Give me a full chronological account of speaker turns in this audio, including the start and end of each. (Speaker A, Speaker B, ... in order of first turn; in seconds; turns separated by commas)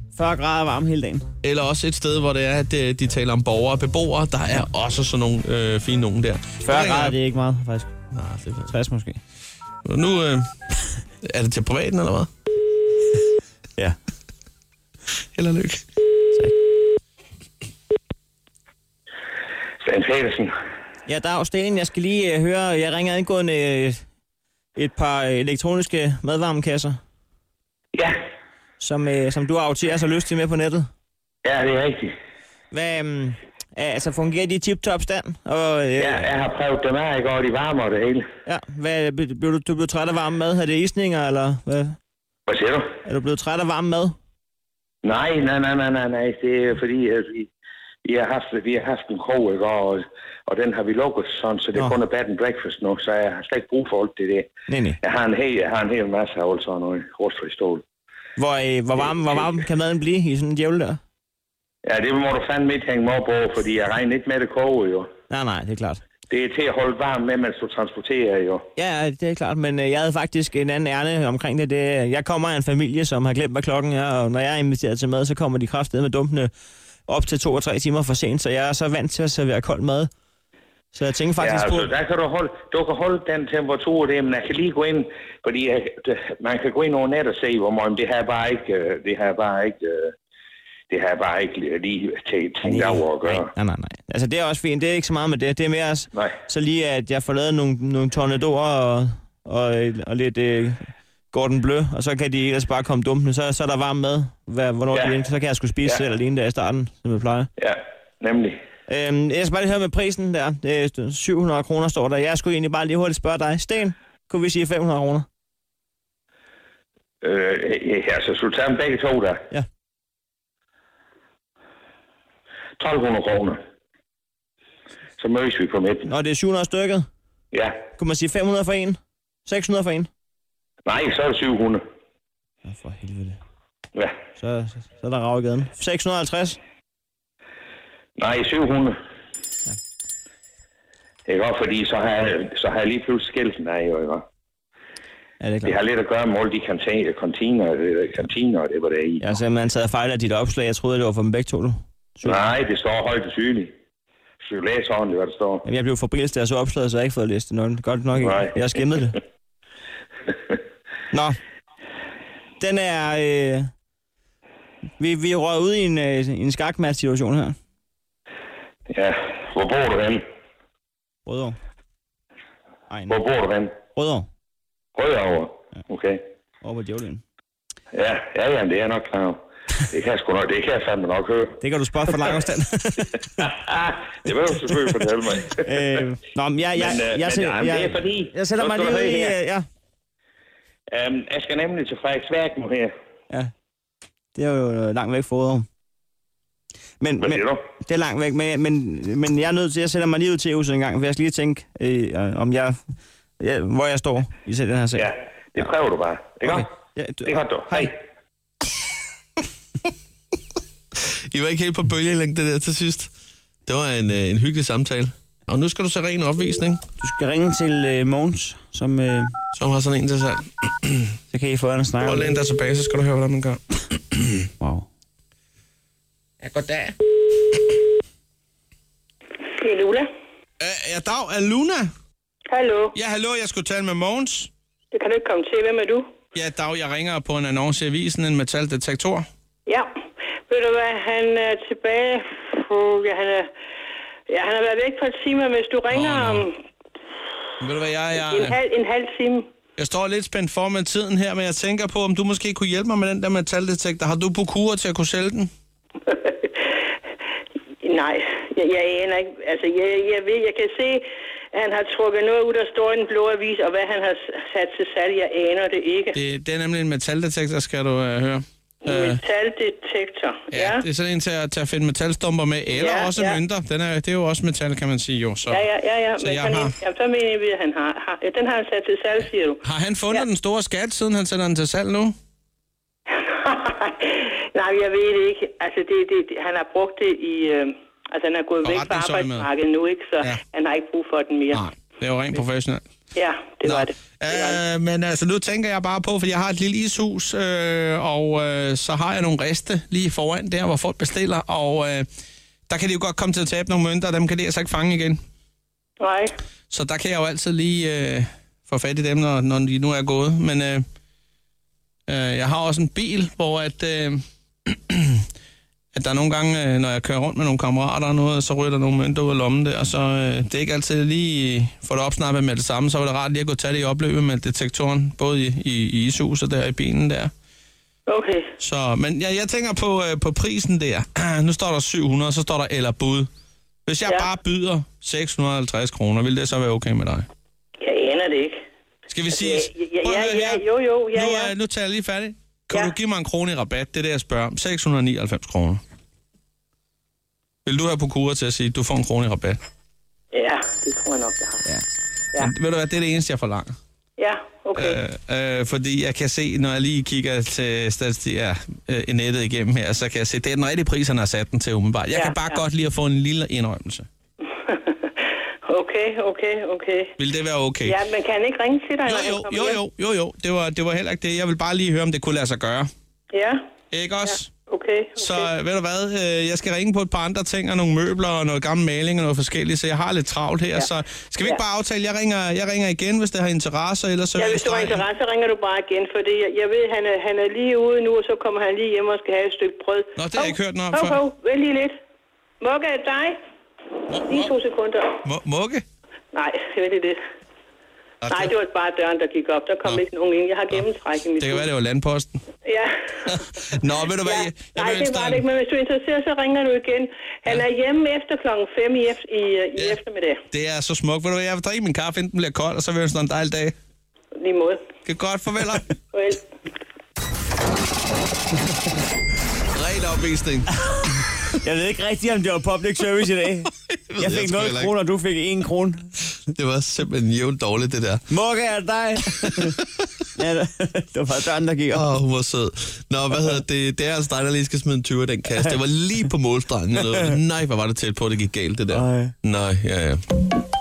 Speaker A: 0.1-1.2, Speaker B: 1.4-7.2, Speaker A: 6.6-7.9, Speaker B: 8.1-8.7, Speaker A: 8.7-9.2, Speaker B: 9.8-10.5, Speaker B: 11.2-12.3, Speaker B: 15.3-15.8, Speaker C: 19.8-20.5, Speaker A: 21.1-24.0, Speaker A: 24.8-27.0, Speaker A: 28.8-30.9, Speaker C: 31.4-32.1, Speaker A: 32.7-36.3, Speaker C: 36.0-38.2, Speaker A: 38.4-42.0, Speaker C: 42.5-42.8, Speaker A: 43.0-44.1, Speaker C: 45.0-47.5, Speaker C: 48.0-54.5, Speaker A: 54.7-55.0, Speaker C: 55.0-57.8, Speaker A: 58.4-61.0, Speaker C: 61.8-65.1, Speaker A: 65.3-66.0, Speaker C: 66.3-68.6, Speaker A: 68.8-76.5, Speaker A: 77.1-80.1, Speaker A: 80.9-81.9, Speaker C: 81.4-90.1, Speaker C: 90.9-93.5, Speaker A: 92.6-107.5, Speaker C: 107.6-108.6, Speaker A: 108.9-115.2, Speaker C: 117.2-119.4, Speaker C: 122.8-123.6, Speaker C: 125.2-126.1, Speaker A: 126.0-127.1, Speaker A: 127.9-130.1, Speaker C: 130.8-131.8, Speaker A: 132.6-133.4, Speaker A: 134.3-136.6, Speaker C: 138.2-138.9, Speaker C: 141.3-144.2, Speaker A: 145.4-145.8, Speaker C: 145.6-149.2, Speaker A: 149.2-152.5, Speaker C: 152.2-153.7, Speaker C: 154.4-155.6, Speaker A: 155.6-159.2, Speaker C: 158.2-158.5, Speaker A: 161.1-161.4, Speaker A: 162.6-163.7, Speaker A: 165.0-167.6, Speaker C: 168.9-170.2, Speaker A: 171.2-171.6, Speaker A: 172.9-173.2, Speaker C: 173.1-173.7, Speaker A: 173.9-174.3, Speaker C: 174.9-176.2, Speaker A: 176.6-177.2, Speaker C: 177.9-181.6, Speaker A: 181.6-183.4, Speaker C: 183.4-185.8, Speaker A: 185.6-189.6, Speaker C: 186.8-189.3, Speaker C: 190.9-192.9, Speaker A: 194.3-195.7, Speaker A: 197.0-202.8, Speaker C: 197.2-197.6, Speaker A: 203.4-205.7, Speaker C: 204.9-206.7, Speaker A: 206.4-207.9, Speaker C: 207.2-207.9, Speaker B: 210.9-213.1, Speaker B: 213.7-216.8, Speaker A: 217.0-219.3, Speaker B: 219.5-221.2, Speaker A: 221.3-222.3, Speaker B: 222.0-224.4, Speaker A: 224.6-224.8, Speaker D: 229.6-230.1, Speaker B: 230.6-231.9, Speaker D: 232.5-232.9, Speaker B: 232.9-234.5, Speaker D: 234.9-236.0, Speaker B: 236.3-239.2, Speaker D: 240.5-243.5, Speaker D: 244.3-246.6, Speaker B: 245.9-246.4, Speaker B: 247.6-248.6, Speaker D: 248.2-249.5, Speaker B: 249.8-255.5, Speaker D: 256.1-256.7, Speaker D: 257.8-266.2, Speaker B: 266.1-269.2, Speaker D: 268.9-270.8, Speaker B: 270.5-275.6, Speaker D: 272.7-273.4, Speaker D: 275.5-279.6, Speaker B: 276.2-276.7, Speaker B: 279.6-282.1, Speaker D: 283.2-291.6, Speaker B: 288.6-289.5, Speaker B: 291.5-292.8, Speaker D: 293.1-294.6, Speaker B: 293.6-302.1, Speaker B: 302.7-305.2, Speaker D: 306.0-306.3, Speaker B: 306.7-310.8, Speaker B: 312.1-315.2, Speaker B: 315.9-327.3, Speaker D: 328.1-328.5, Speaker B: 328.6-333.3, Speaker B: 333.9-337.3, Speaker D: 337.8-338.6, Speaker B: 339.1-345.8, Speaker D: 339.3-341.5, Speaker B: 347.6-349.6, Speaker D: 350.3-351.6, Speaker B: 352.4-353.8, Speaker D: 354.2-355.0, Speaker B: 354.7-364.1, Speaker D: 362.1-362.6, Speaker D: 364.6-365.1, Speaker D: 365.7-367.1, Speaker B: 367.2-367.9, Speaker D: 367.8-369.8, Speaker B: 369.1-372.9, Speaker D: 373.3-373.6, Speaker B: 373.9-374.5, Speaker D: 374.2-375.5, Speaker B: 375.2-385.0, Speaker D: 384.4-391.9, Speaker B: 390.2-391.2, Speaker D: 392.6-393.4, Speaker B: 394.1-394.5, Speaker D: 394.2-395.2, Speaker B: 395.2-395.8, Speaker D: 396.3-397.2, Speaker B: 398.2-398.5, Speaker D: 398.3-401.6, Speaker B: 401.4-402.4, Speaker D: 402.6-402.9, Speaker B: 403.2-405.4, Speaker D: 404.2-410.4, Speaker B: 410.5-413.7, Speaker D: 414.4-414.8, Speaker B: 415.0-415.9, Speaker D: 416.1-416.4, Speaker B: 419.7-421.6, Speaker A: 421.6-426.1, Speaker B: 423.9-424.9, Speaker B: 426.5-428.3, Speaker A: 428.3-429.8, Speaker A: 430.4-432.1, Speaker B: 431.9-440.2, Speaker A: 438.9-439.4